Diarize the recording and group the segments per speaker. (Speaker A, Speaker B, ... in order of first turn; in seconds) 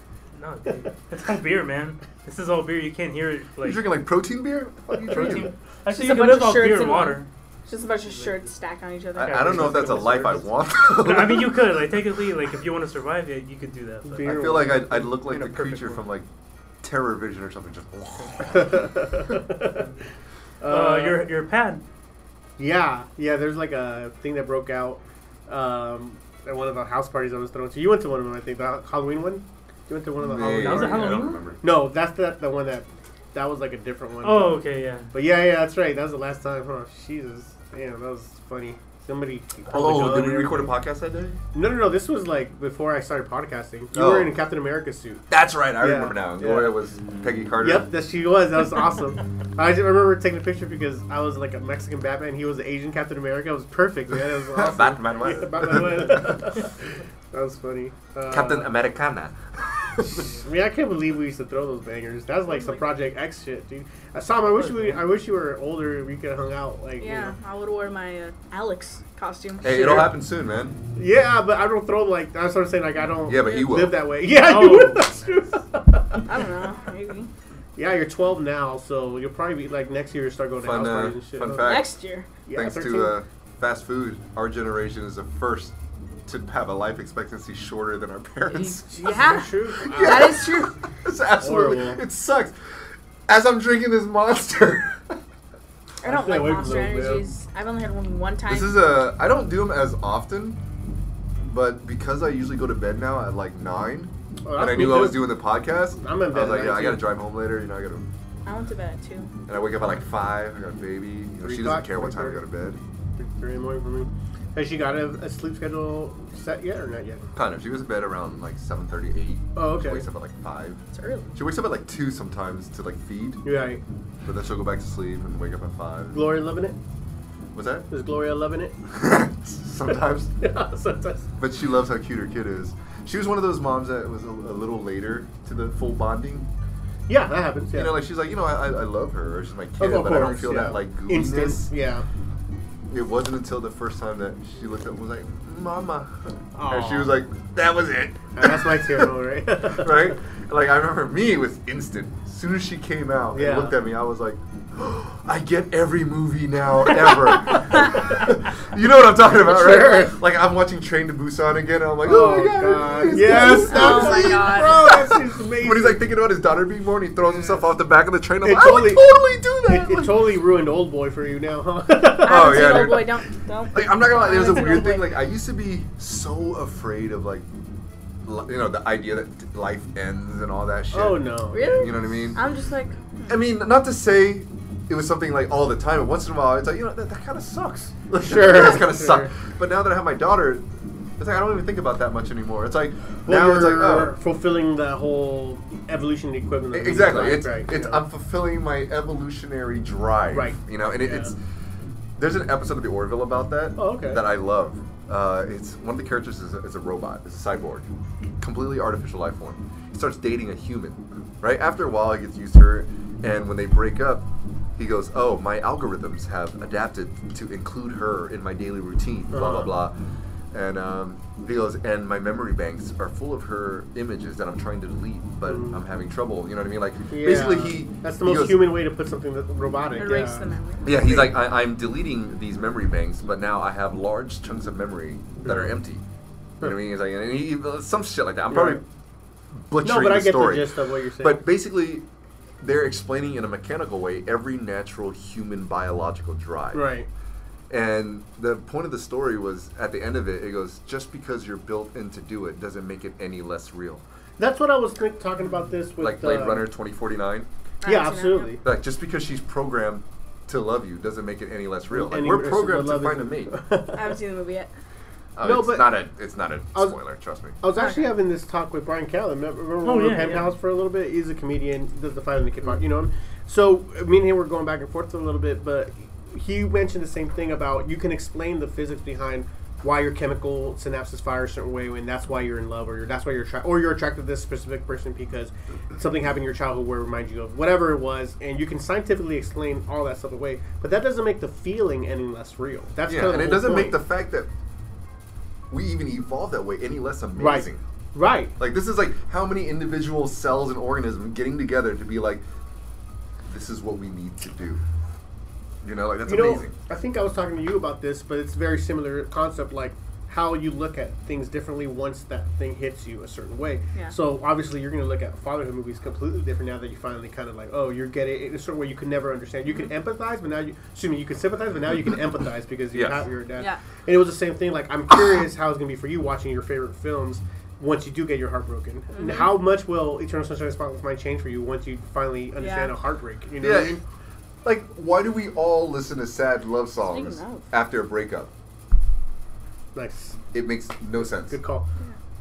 Speaker A: 0.3-3.9, 5.0-7.3, 8.1-8.4, 9.2-16.0, 20.7-21.8, 30.4-31.4, 34.2-35.1, 64.6-65.1, 74.3-75.1, 269.8-270.5
Speaker B: 3.6-5.5, 9.2-11.6, 14.2-16.3, 16.8-18.9, 30.2-31.6, 39.7-41.4, 43.9-44.3, 45.3-47.9, 54.5-56.6, 58.3-60.2, 69.6-70.8, 73.3-74.0, 80.6-81.9, 82.5-92.5, 93.3-95.2, 98.5-100.6, 101.4-108.1, 109.5-112.8, 117.3-120.8, 121.3-123.4, 124.2-126.2, 127.5-127.9, 128.9-130.3, 131.4-136.5, 137.7-141.7, 142.9-149.1, 149.6-170.2, 172.2-173.2, 173.7-177.5, 178.2-182.4, 183.3-190.7, 191.2-194.2, 196.7-201.4, 202.2-207.9, 208.4-219.9, 220.5-228.7, 230.8-236.0, 236.6-238.8, 239.5-242.1, 242.6-246.9, 247.7-254.0, 256.0-257.5, 258.6-263.6, 265.4-267.6, 293.1-294.5, 295.7-297.8, 298.6-302.4, 303.5-304.8, 305.8-306.8, 322.9-323.3, 333.6-334.0, 334.6-338.5, 340.5-341.6
Speaker C: 5.9-10.1, 62.5-62.9, 67.0-70.1, 76.3-77.3, 81.6-82.3, 89.0-90.7, 96.0-98.8, 108.5-109.3, 120.9-121.3, 163.5-165.0, 172.2-175.2, 181.5-183.4, 230.0-231.0, 257.8-258.5, 263.9-264.7, 267.7-268.1, 329.1-329.6, 332.6-332.9, 337.0-337.6
Speaker D: 14.1-15.1, 18.5-19.9, 20.6-21.3, 22.6-34.6, 35.1-40.7, 41.5-45.2, 45.8-46.8, 47.6-58.7, 60.0-67.3, 71.0-76.3, 77.8-81.7, 82.5-83.2, 88.6-90.4, 91.4-92.0, 96.0-97.3, 104.5-105.3, 106.0-107.0, 111.4-112.4, 113.2-117.3, 119.6-120.0, 123.4-123.8, 126.1-126.8, 127.9-128.8, 130.4-131.3, 137.1-137.9, 139.8-142.1, 146.6-147.2, 148.3-150.2, 153.3-153.8, 159.3-160.2, 162.0-166.0, 168.4-172.7, 180.9-181.8, 188.1-189.3, 193.3-198.0, 200.3-201.3, 203.8-204.2, 219.3-219.7, 225.5-225.8, 227.1-231.2, 235.4-235.8, 238.5-238.8, 239.8-241.4, 246.7-247.1, 254.4-256.7, 257.9-258.6, 261.9-264.2, 265.4-265.9, 267.6-294.0, 297.4-298.6, 306.3-334.0, 339.9-340.4, 341.5-341.9